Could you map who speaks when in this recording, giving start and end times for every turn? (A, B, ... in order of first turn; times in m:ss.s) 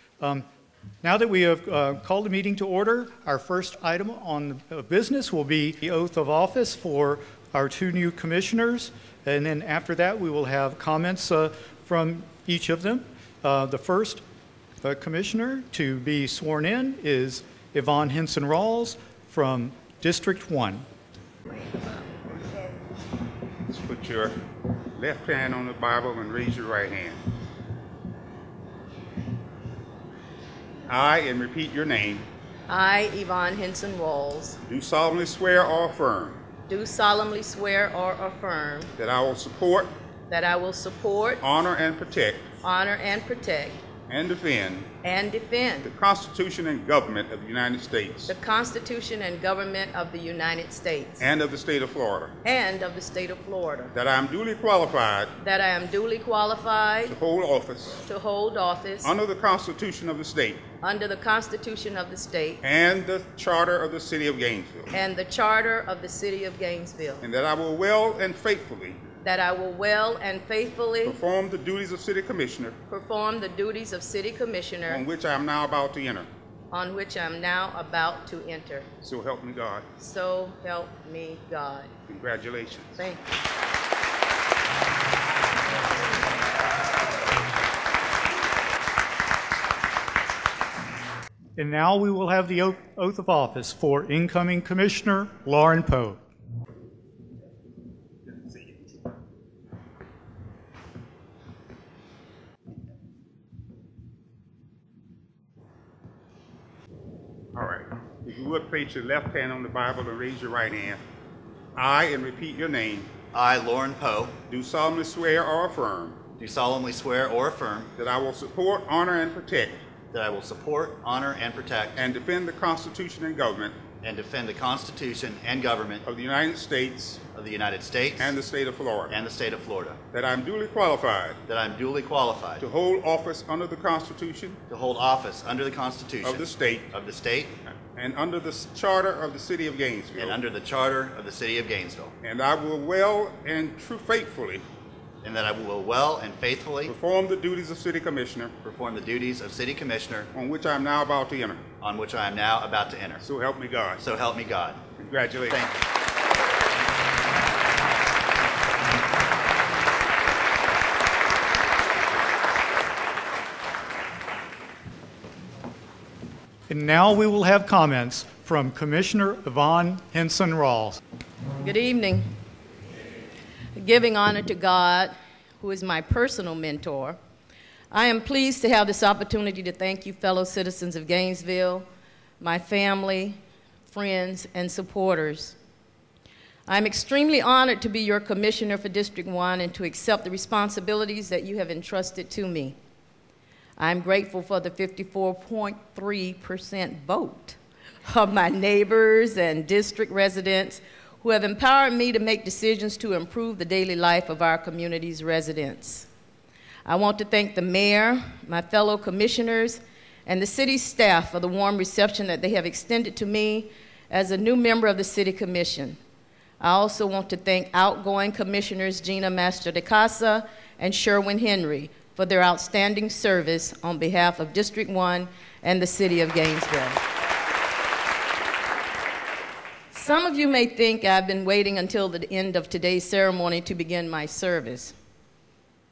0:00.2-0:00.4 A
0:01.0-0:14.2 A
0:14.8-0:20.9 A
0:23.7-0:24.4 B
0:25.0-0:27.2 B
0:30.9-0:32.2 B
0:32.7-0:34.6 C
0:34.6-0:36.4 B
0:36.7-0:38.9 C
0:39.0-0:39.9 B
0:40.3-0:41.4 C
0:41.4-0:42.5 B
0:42.6-0:43.8 C
0:44.1-0:44.9 B
0:45.0-0:45.9 C
0:45.8-0:48.3 B
0:48.3-0:51.2 C
0:51.2-0:52.3 B
0:52.4-0:53.9 C
0:53.9-0:55.3 B
0:55.4-0:57.2 C
0:57.0-0:58.0 B
0:58.0-0:59.1 C
0:59.0-1:00.6 B
1:00.8-1:02.6 C
1:02.6-1:04.9 B
1:04.9-1:07.2 C
1:07.2-1:09.0 B
1:09.2-1:11.2 C
1:11.0-1:12.8 B
1:12.9-1:15.0 C
1:14.9-1:16.3 B
1:16.7-1:18.9 C
1:19.0-1:19.8 B
1:20.0-1:21.9 C
1:22.1-1:23.0 B
1:23.0-1:23.4 C
1:31.6-1:36.2 A
1:47.5-1:51.0 B
1:51.7-1:53.1 B
1:53.3-1:54.4 D
1:54.4-1:56.2 B
1:56.4-1:57.9 D
1:58.0-1:59.8 B
2:00.1-2:02.0 D
2:02.0-2:03.8 B
2:04.0-2:06.0 D
2:06.0-2:07.2 B
2:07.3-2:08.4 D
2:08.2-2:09.1 B
2:09.1-2:10.0 D
2:10.1-2:11.4 B
2:11.5-2:12.6 D
2:12.6-2:14.6 B
2:14.7-2:17.5 D
2:16.2-2:16.9 B
2:17.7-2:20.4 B
2:20.2-2:22.1 D
2:22.2-2:24.6 B
2:25.2-2:26.9 D
2:26.8-2:28.5 B
2:28.6-2:30.3 D
2:30.3-2:31.6 B
2:31.8-2:33.2 D
2:33.2-2:34.0 B
2:34.0-2:34.8 D
2:35.0-2:35.6 B
2:35.5-2:35.8 D
2:46.7-2:51.0 A
2:51.6-2:52.3 C
2:53.7-2:57.2 C
2:57.9-3:01.8 C
3:02.4-3:05.6 C
3:06.7-3:12.8 C
3:13.8-3:26.1 C
3:26.8-3:36.0 C
3:36.6-3:47.0 C
3:49.9-3:55.0 C